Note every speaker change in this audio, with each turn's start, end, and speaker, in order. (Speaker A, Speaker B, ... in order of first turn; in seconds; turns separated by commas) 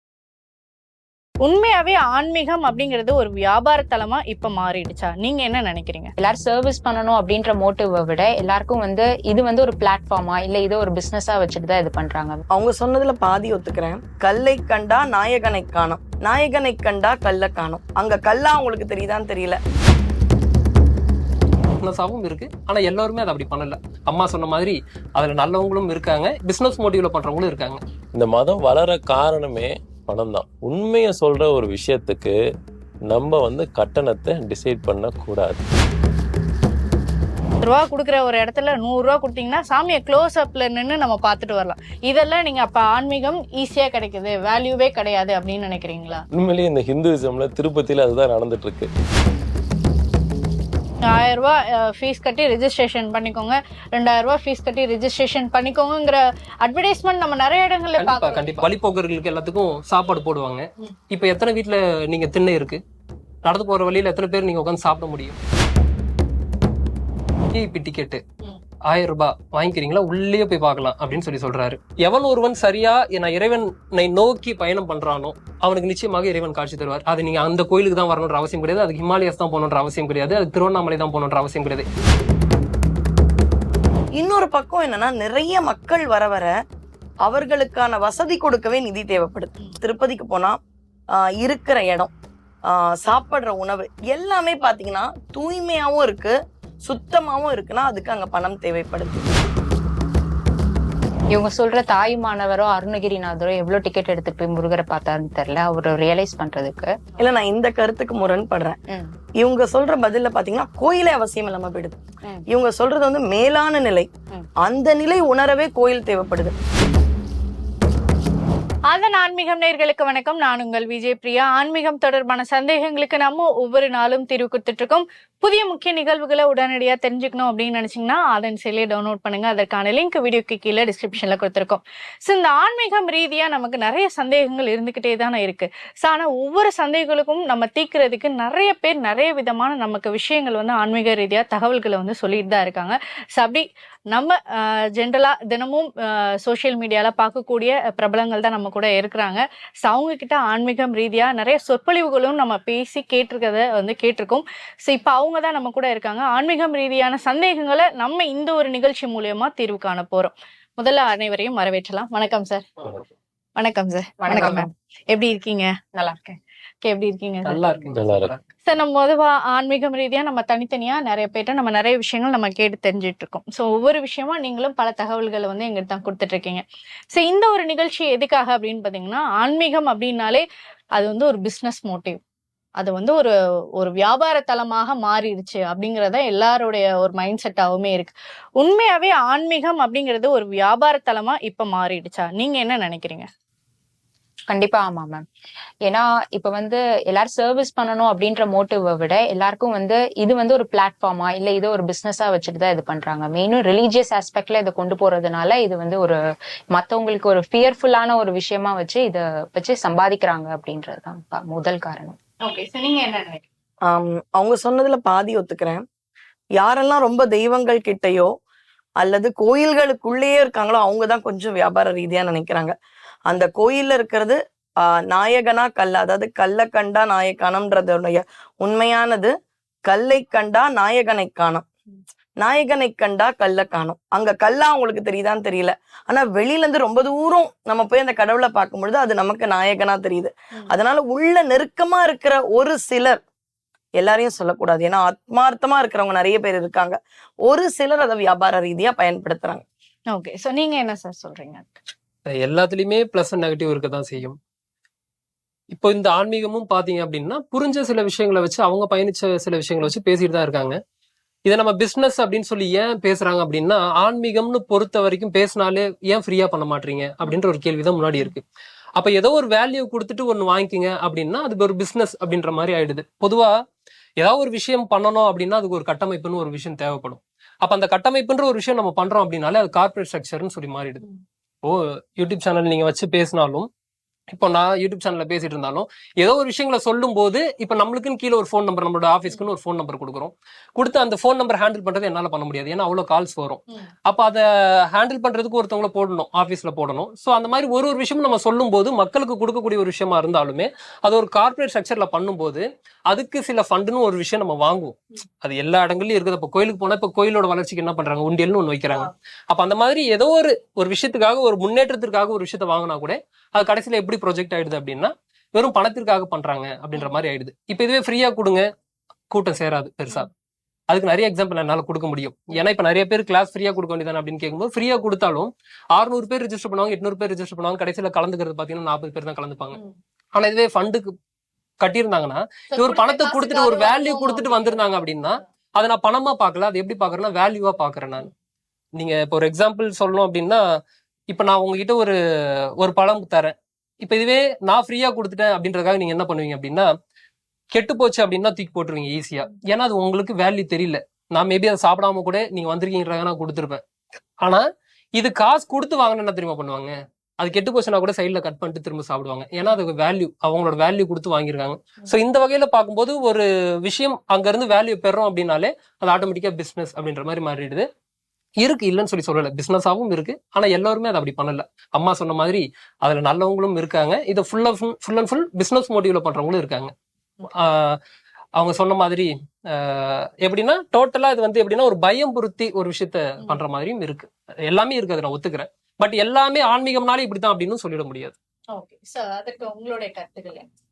Speaker A: 1.4-6.1, Speaker B: 6.2-12.4, Speaker C: 12.5-19.6, Speaker D: 21.8-27.8, Speaker E: 28.1-32.3, Speaker E: 33.1-35.6, Speaker A: 37.6-46.2, Speaker E: 46.3-48.9, Speaker A: 51.0-58.6, Speaker D: 58.0-62.8, Speaker D: 63.5-65.4, Speaker D: 67.5-68.2, Speaker D: 68.9-81.9, Speaker C: 84.2-86.5, Speaker C: 87.2-90.6, Speaker C: 91.2-92.1, Speaker C: 92.7-96.3, Speaker C: 96.8-99.3, Speaker B: 101.3-106.9, Speaker C: 107.2-108.8, Speaker C: 109.4-114.1, Speaker C: 114.6-116.5, Speaker A: 118.9-163.0, Speaker A: 163.6-165.7, Speaker B: 164.2-164.7, Speaker B: 165.9-166.4, Speaker A: 166.8-167.6, Speaker D: 167.4-168.4, Speaker E: 167.9-168.3, Speaker A: 168.6-180.4, Speaker A: 180.9-182.2, Speaker A: 182.8-193.3, Speaker B: 194.5-195.2, Speaker B: 195.8-206.2, Speaker B: 206.7-212.2, Speaker A: 212.4-213.4, Speaker C: 213.9-215.8, Speaker C: 216.6-218.3, Speaker C: 219.0-222.7, Speaker C: 223.3-224.4, Speaker C: 225.1-229.3, Speaker C: 229.8-231.6, Speaker C: 232.4-243.2, Speaker C: 244.0-249.6, Speaker A: 250.1-251.7, Speaker D: 252.4-254.4, Speaker D: 255.7-260.8, Speaker D: 261.5-268.4, Speaker D: 269.0-273.5, Speaker D: 274.2-281.0, Speaker D: 281.6-283.7, Speaker D: 284.3-318.7, Speaker D: 319.3-320.3, Speaker D: 320.9-329.8, Speaker D: 330.3-331.1, Speaker D: 331.8-338.3, Speaker A: 332.7-334.8, Speaker D: 339.0-340.6, Speaker D: 341.3-342.2, Speaker D: 342.8-346.9, Speaker D: 347.7-353.8, Speaker D: 355.1-367.9, Speaker D: 368.6-376.9, Speaker D: 377.5-378.0, Speaker D: 378.6-388.4, Speaker A: 388.7-390.6